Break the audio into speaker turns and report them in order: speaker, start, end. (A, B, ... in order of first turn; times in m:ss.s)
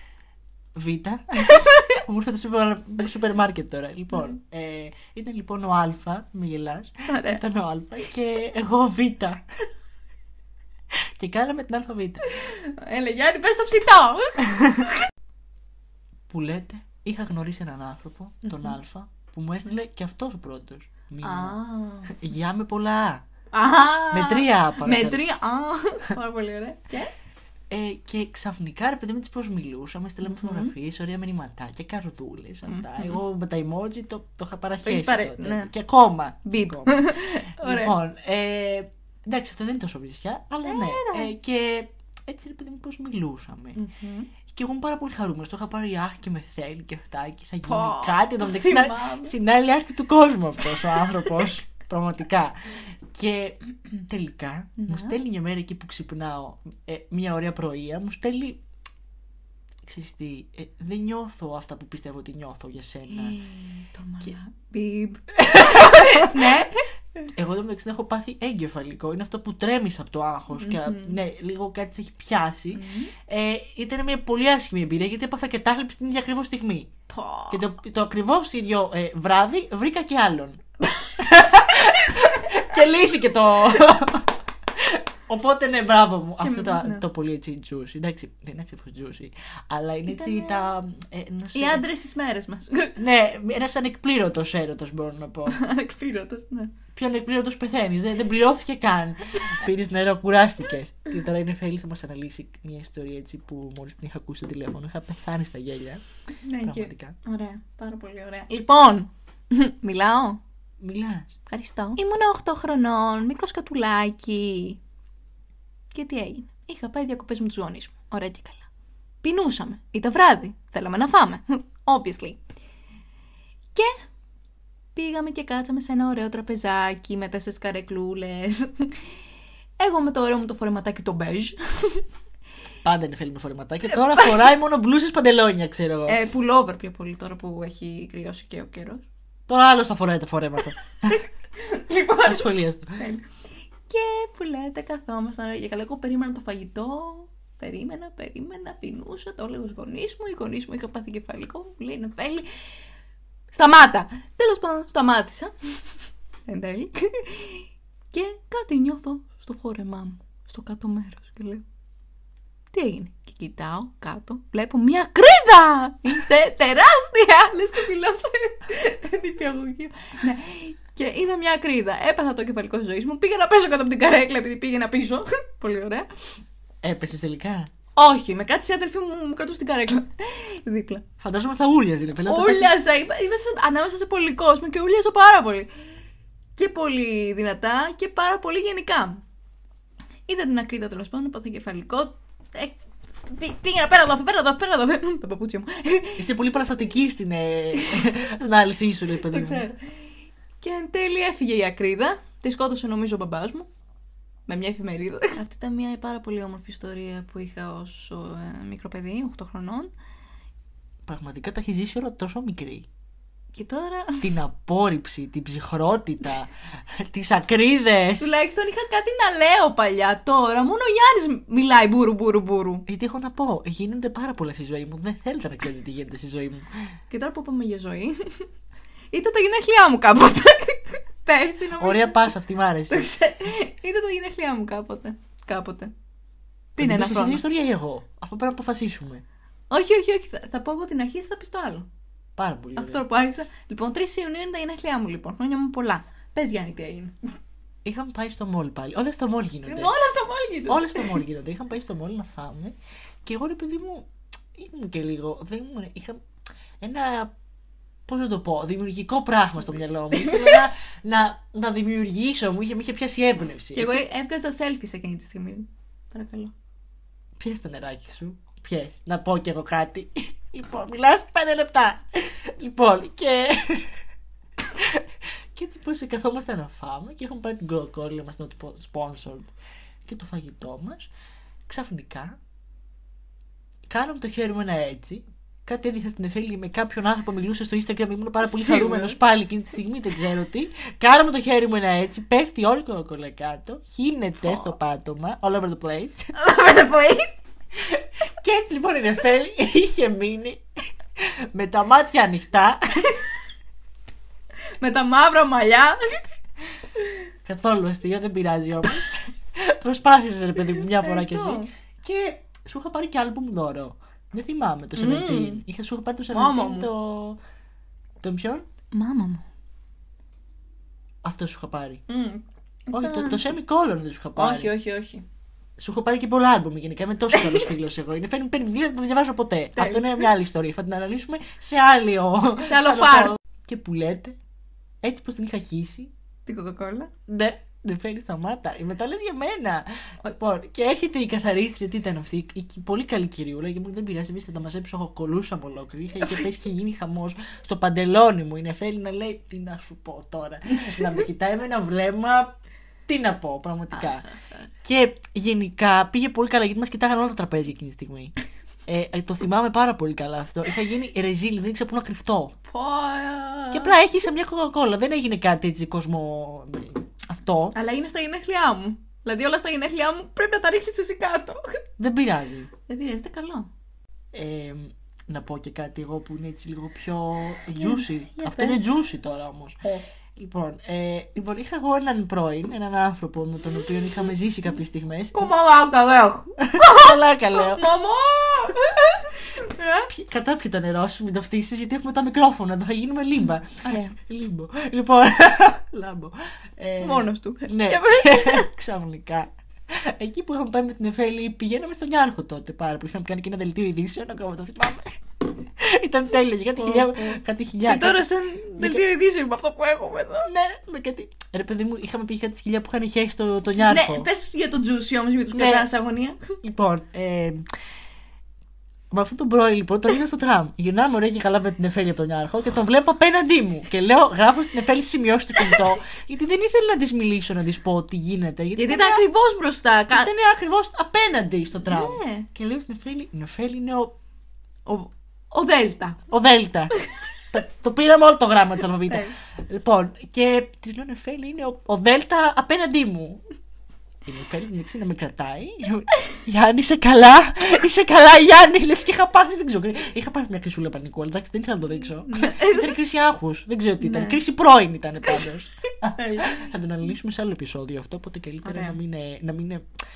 0:00.8-0:09.4 A
0:01.5-0:02.0 B
0:07.1-0:07.4 B
0:11.2-0:12.3 A
0:12.3-0:14.9 B
0:16.3-0:23.2 A
0:18.5-0:18.8 B
0:21.2-0:22.1 B
0:23.5-0:27.1 B
0:24.1-0:25.2 A
0:27.7-0:43.8 A
0:30.2-0:30.7 B
0:32.6-0:33.2 B
0:34.8-0:35.7 B
0:36.4-0:37.9 B
0:40.6-0:41.3 B
0:43.8-0:44.3 B
0:44.5-0:58.6 A
0:47.6-0:49.4 B
0:54.8-0:55.2 B
0:59.8-1:03.4 A
1:03.1-1:06.9 B
1:05.4-1:06.7 A
1:07.4-1:16.9 A
1:10.5-1:11.2 B
1:12.7-1:13.1 B
1:17.1-1:17.7 B
1:17.5-1:20.6 A
1:21.2-1:31.8 A
1:26.4-1:27.1 B
1:30.1-1:30.7 B
1:31.5-1:33.0 B
1:33.0-1:35.6 A
1:35.5-1:36.7 B
1:36.9-1:46.0 A
1:46.4-1:50.4 B
1:46.6-1:47.2 A
1:50.8-1:51.3 A
1:51.5-1:54.8 B
1:55.9-1:58.7 B
1:59.2-2:02.4 B
2:03.8-2:04.0 B
2:05.0-2:09.1 B
2:09.8-2:12.0 B
2:12.8-2:16.2 A
2:14.0-2:14.4 B
2:16.1-2:19.1 B
2:19.5-2:21.2 A
2:21.6-2:22.5 B
2:22.2-2:23.0 A
2:23.0-2:23.2 B
2:23.9-2:32.5 B
2:33.5-2:41.6 B
2:42.7-2:56.1 B
2:56.8-2:57.7 A
2:58.0-3:01.0 B
3:01.2-3:02.8 A
3:02.3-3:05.7 B
3:06.6-3:09.2 B
3:10.3-3:16.4 B
3:16.2-3:19.7 A
3:17.8-3:18.1 B
3:19.2-3:20.1 B
3:20.6-3:23.7 B
3:24.5-3:29.9 B
3:31.0-3:32.9 A
3:33.5-3:34.3 B
3:34.2-3:38.3 A
3:38.2-3:42.8 B
3:42.9-3:46.7 A
3:47.1-3:48.5 B
3:49.1-3:52.2 B
3:51.8-3:53.1 A
3:52.9-3:55.9 B
3:56.8-3:57.4 B
3:56.8-3:59.2 A
3:59.7-4:01.9 B
4:02.4-4:03.0 A
4:02.8-4:07.2 B
4:07.8-4:10.0 A
4:09.7-4:11.2 B
4:10.7-4:16.2 A
4:16.8-4:17.3 A
4:18.1-4:24.0 A
4:20.1-4:20.6 B
4:23.7-4:26.5 B
4:27.4-4:34.0 A
4:34.7-4:39.5 A
4:40.1-4:41.1 A
4:41.7-4:42.4 A
4:43.9-4:56.3 A
4:48.4-4:49.2 B
4:56.4-4:57.4 B
4:57.8-5:00.6 A
5:01.2-5:03.1 A
5:04.8-5:06.0 B
5:07.5-5:17.4 A
5:10.6-5:11.7 B
5:15.0-5:15.6 B
5:16.3-5:16.9 B
5:18.2-5:18.7 A
5:18.9-5:19.4 B
5:21.2-5:22.0 A
5:22.1-5:23.5 B
5:22.9-5:24.7 A
5:24.4-5:25.2 B
5:25.8-5:34.4 A
5:27.4-5:27.6 B
5:29.8-5:30.3 B
5:32.6-5:33.4 B
5:35.0-5:36.1 A
5:36.5-5:37.1 B
5:37.3-5:52.5 A
5:50.8-5:51.1 B
5:53.1-5:54.2 A
5:53.9-5:54.7 B
5:54.8-5:58.3 A
5:58.9-6:02.6 A
6:02.7-6:04.0 B
6:03.7-6:07.8 A
6:07.7-6:11.8 B
6:12.0-6:12.7 A
6:12.9-6:13.7 B
6:14.3-6:19.8 A
6:17.8-6:18.9 B
6:20.4-6:25.5 A
6:25.3-6:30.1 B
6:26.7-6:27.9 A
6:30.1-6:45.1 A
6:33.8-6:34.2 B
6:37.0-6:38.7 B
6:45.8-6:49.1 A
6:46.8-6:50.5 B
6:50.4-6:54.3 A
6:53.8-6:56.5 B
6:55.5-6:55.9 A
6:56.6-6:57.6 A
6:59.1-7:09.2 A
7:08.8-7:10.3 B
7:10.1-7:14.1 A
7:11.8-7:12.5 B
7:14.9-7:16.2 B
7:16.3-7:16.9 A
7:17.5-7:23.4 A
7:19.0-7:19.4 B
7:24.2-7:39.9 A
7:32.1-7:32.9 B
7:34.0-7:34.4 B
7:36.2-7:36.7 B
7:38.6-7:39.0 B